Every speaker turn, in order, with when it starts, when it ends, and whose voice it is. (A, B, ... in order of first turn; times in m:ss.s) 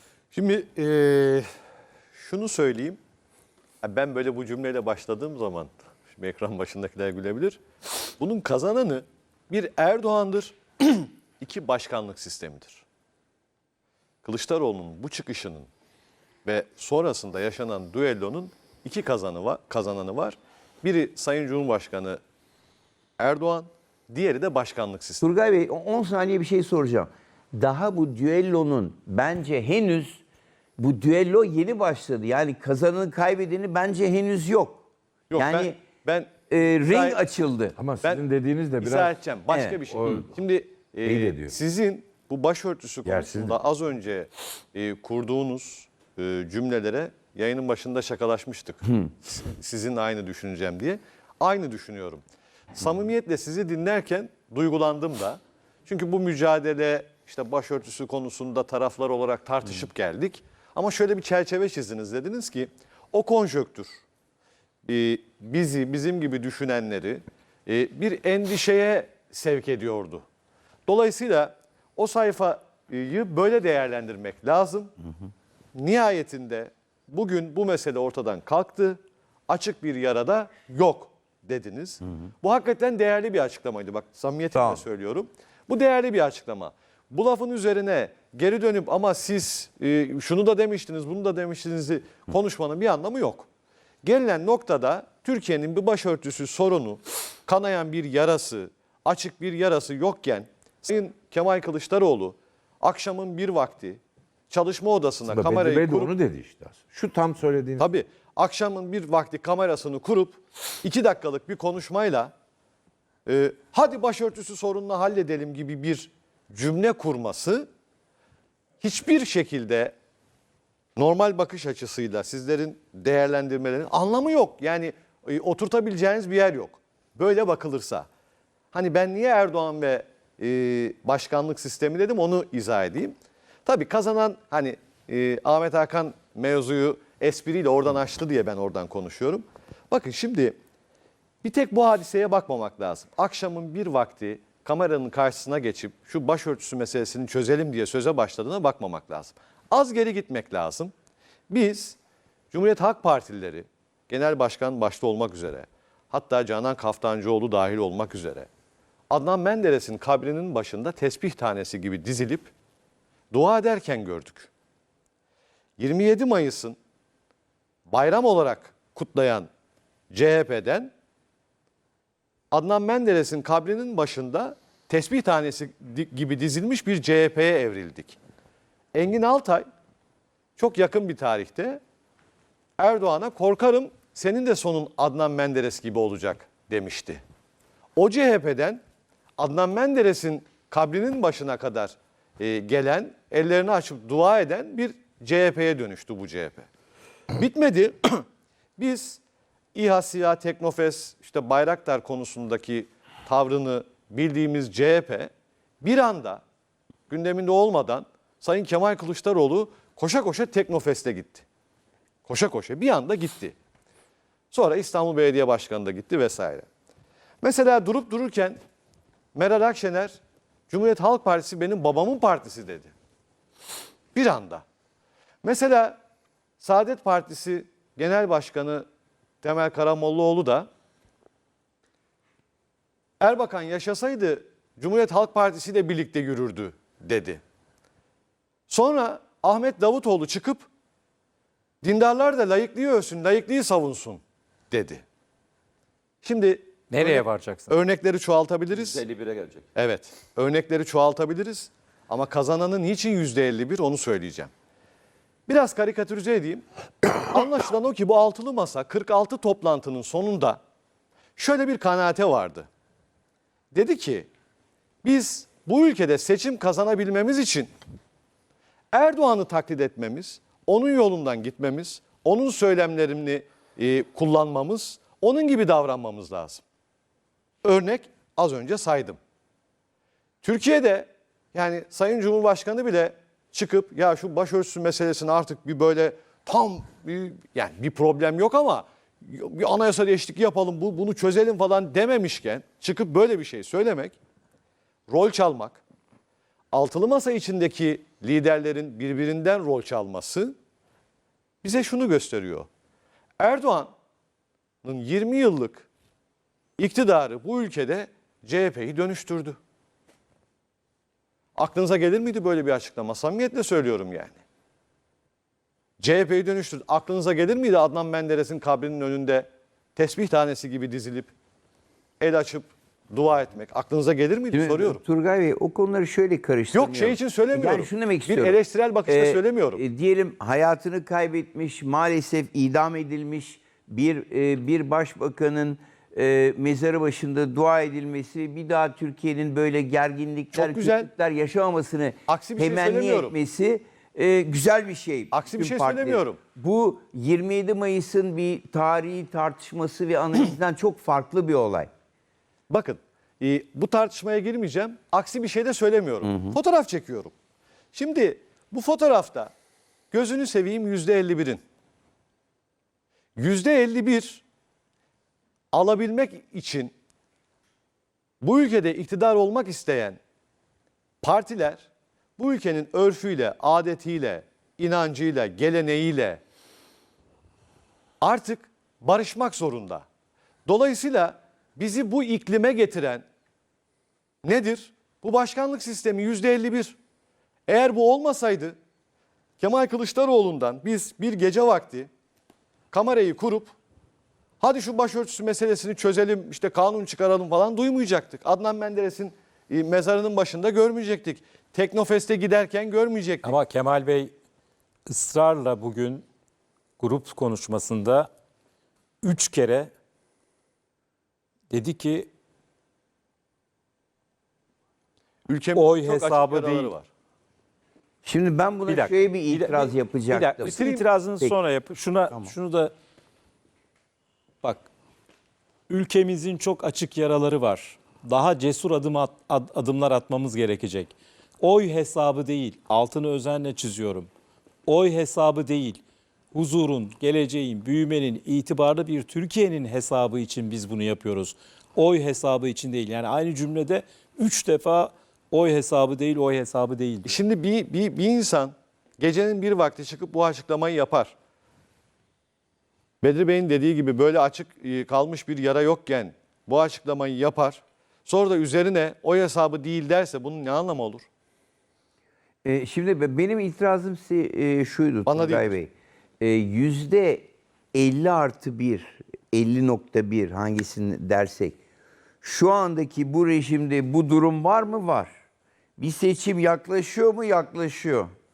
0:00.3-0:01.5 A
0:02.2-0:03.0 A
0:03.8-0:07.6 A
0:08.2-0:12.8 A
0:14.2-0:15.7 A
0:16.4-0:22.2 A
0:23.2-0:25.3 A
0:25.2-0:30.2 B
0:30.8-0:34.8 B
0:35.3-0:36.3 A
0:35.4-0:35.8 B
0:36.5-0:37.8 B
0:36.8-0:37.2 A
0:37.8-0:39.2 C
0:38.8-0:52.2 A
0:39.5-0:39.8 B
0:39.9-0:40.3 C
0:41.0-0:41.5 B
0:43.1-0:43.6 C
0:52.8-1:04.0 A
1:04.9-1:10.2 A
1:10.9-1:14.9 A
1:15.8-1:33.5 A
1:24.6-1:24.8 B
1:34.0-1:46.1 A
1:45.3-1:47.9 C
1:47.8-1:52.3 A
1:53.3-1:57.7 A
1:58.8-1:59.9 A
2:01.0-2:08.1 A
2:08.7-2:13.1 A
2:13.7-2:20.6 A
2:21.4-2:30.9 A
2:31.5-2:32.0 A
2:32.5-2:38.5 A
2:39.1-2:42.5 A
2:43.3-2:44.5 A
2:45.8-2:46.8 A
2:47.9-2:49.5 A
2:50.1-2:50.9 A
2:52.5-2:58.2 A
2:58.9-2:59.7 A
3:00.6-3:01.8 A
3:02.8-3:07.2 A
3:08.0-3:08.8 A
3:09.4-3:16.7 A
3:17.4-3:18.3 A
3:18.8-3:19.2 A
3:19.8-3:25.3 A
3:25.8-3:26.4 A
3:27.1-3:31.4 A
3:32.3-3:33.6 A
3:34.5-3:36.7 A
3:37.4-3:38.6 A
3:39.4-3:40.2 A
3:40.7-3:42.9 A
3:44.2-3:44.6 A
3:45.4-3:46.0 A
3:46.6-3:48.9 A
3:49.4-3:50.7 A
3:53.2-3:57.4 A
3:58.7-4:00.7 A
4:01.8-4:05.0 A
4:06.2-4:09.1 A
4:06.9-4:07.7 D
4:09.2-4:09.5 D
4:09.8-4:14.5 A
4:15.5-4:20.6 A
4:21.4-4:22.7 A
4:23.7-4:24.3 A
4:25.0-4:27.7 A
4:28.9-4:36.6 A
4:37.6-4:39.2 A
4:40.4-4:54.2 A
4:55.1-4:55.8 A
4:56.7-5:00.6 A
5:01.6-5:02.7 A
5:03.4-5:03.9 A
5:04.8-5:05.9 A
5:06.8-5:09.6 A
5:11.6-5:14.4 A
5:16.0-5:21.3 A
5:22.2-5:25.0 A
5:24.5-5:51.9 B
5:26.7-5:29.8 A
5:40.5-5:41.1 A
5:42.3-5:43.3 A
5:45.3-5:46.4 A
5:52.7-5:57.3 A
5:56.2-5:56.6 B
5:57.9-5:59.5 A
6:00.1-6:01.6 A
6:03.4-6:04.4 A
6:05.7-6:06.9 A
6:08.4-6:10.2 A
6:11.2-6:16.4 A
6:18.2-6:20.1 A
6:20.7-6:23.2 A
6:24.4-6:27.0 A
6:27.7-6:28.8 A
6:29.6-6:32.1 A
6:32.9-6:33.7 A
6:34.6-6:43.5 A
6:43.4-6:44.3 D
6:45.1-6:46.3 D
6:47.0-6:48.3 D
6:49.2-6:49.9 D
6:51.7-6:52.3 D
6:55.5-6:57.1 A
6:55.8-6:56.9 D
6:58.2-7:00.8 B
6:58.9-7:02.9 D
7:00.6-7:01.0 A
7:04.6-7:04.9 D
7:05.9-7:14.3 D
7:14.9-7:16.0 D
7:16.5-7:27.4 D
7:27.3-7:31.4 A
7:33.2-7:41.3 A
7:42.6-7:51.8 B
7:45.3-7:45.8 A
7:52.4-7:55.4 B
7:56.0-7:58.3 B